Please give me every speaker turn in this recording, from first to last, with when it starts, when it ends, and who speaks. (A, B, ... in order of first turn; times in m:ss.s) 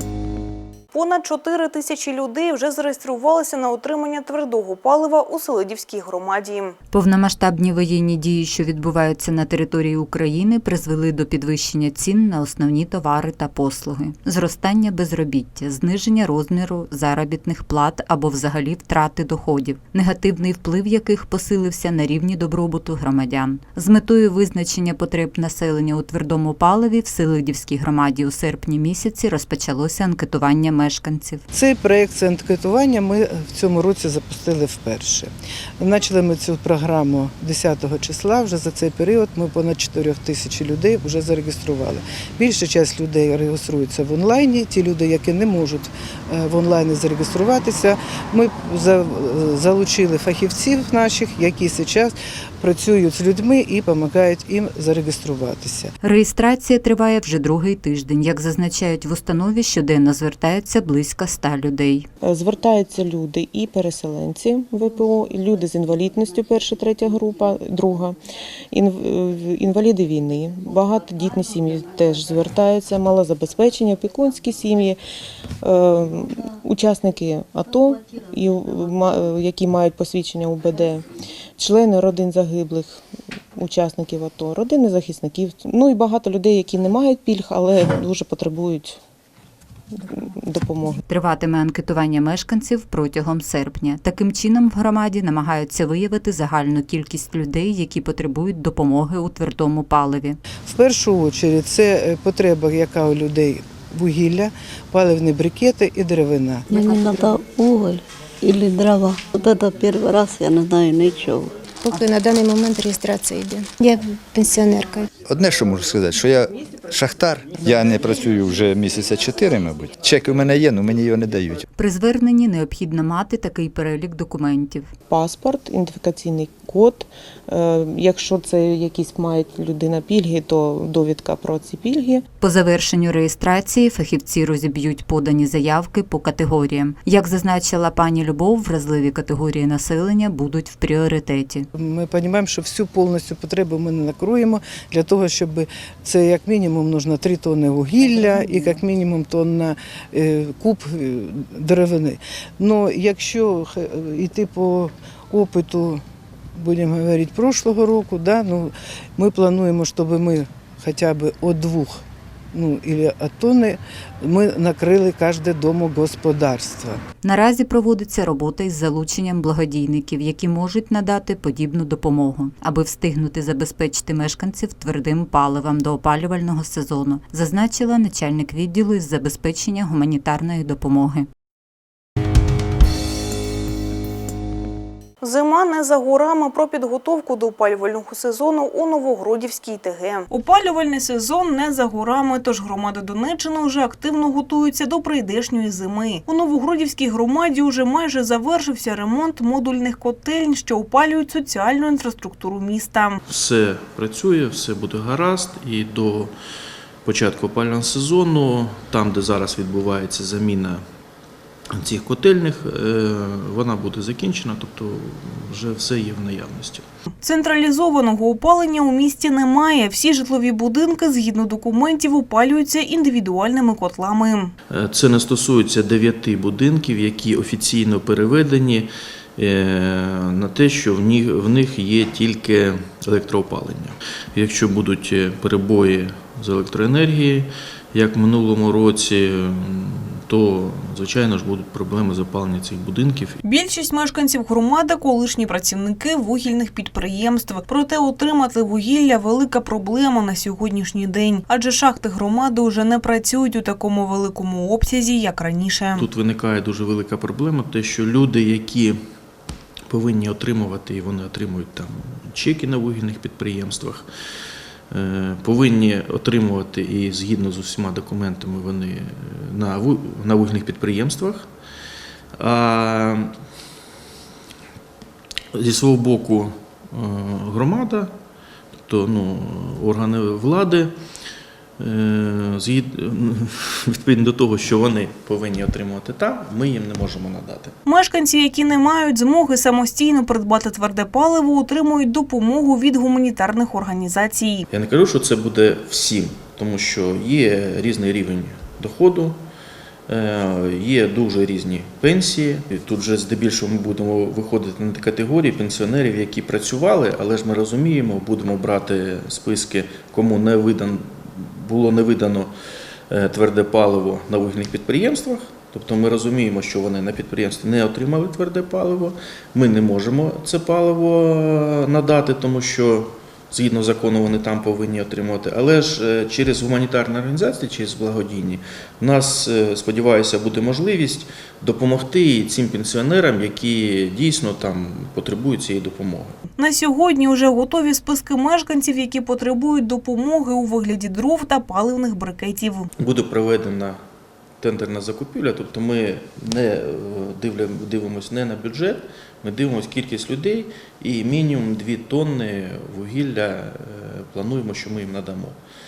0:00.9-0:06.7 A
0:06.9-0:31.4 B
0:31.5-0:55.9 C
0:56.0-1:02.1 B
1:02.2-1:08.2 D
1:08.7-1:15.0 D
1:15.6-1:21.0 D
1:21.6-1:23.0 D
1:23.6-1:29.0 D
1:30.1-1:31.0 D
1:31.1-1:40.4 B
1:40.7-1:46.6 C
1:46.7-1:47.3 E
1:46.8-1:47.9 F
1:48.4-1:51.4 F
1:51.8-1:55.1 E
1:55.2-2:01.6 G
2:01.8-2:04.9 B
2:05.1-2:12.2 D
2:12.4-2:21.7 B
2:21.8-2:36.0 C
2:36.6-2:42.0 C
2:42.5-2:47.0 C
2:47.2-3:01.3 B
3:05.2-3:23.2 A
3:23.2-3:26.3 H
3:27.0-3:30.8 H
3:31.7-3:36.8 H
3:37.2-3:44.5 A
3:44.7-4:03.4 H
4:03.4-4:16.1 A
4:15.9-4:19.1 H
4:19.9-4:24.1 H
4:24.9-4:31.5 H
4:32.4-4:33.4 H
4:35.5-4:38.1 H
4:38.8-4:40.9 H
4:41.8-4:47.8 H
4:47.8-4:54.7 A
4:54.7-4:59.4 H
5:00.1-5:12.5 H
5:13.1-5:36.4 H
5:36.6-5:42.9 A
5:43.0-5:44.0 H
5:44.6-5:55.6 H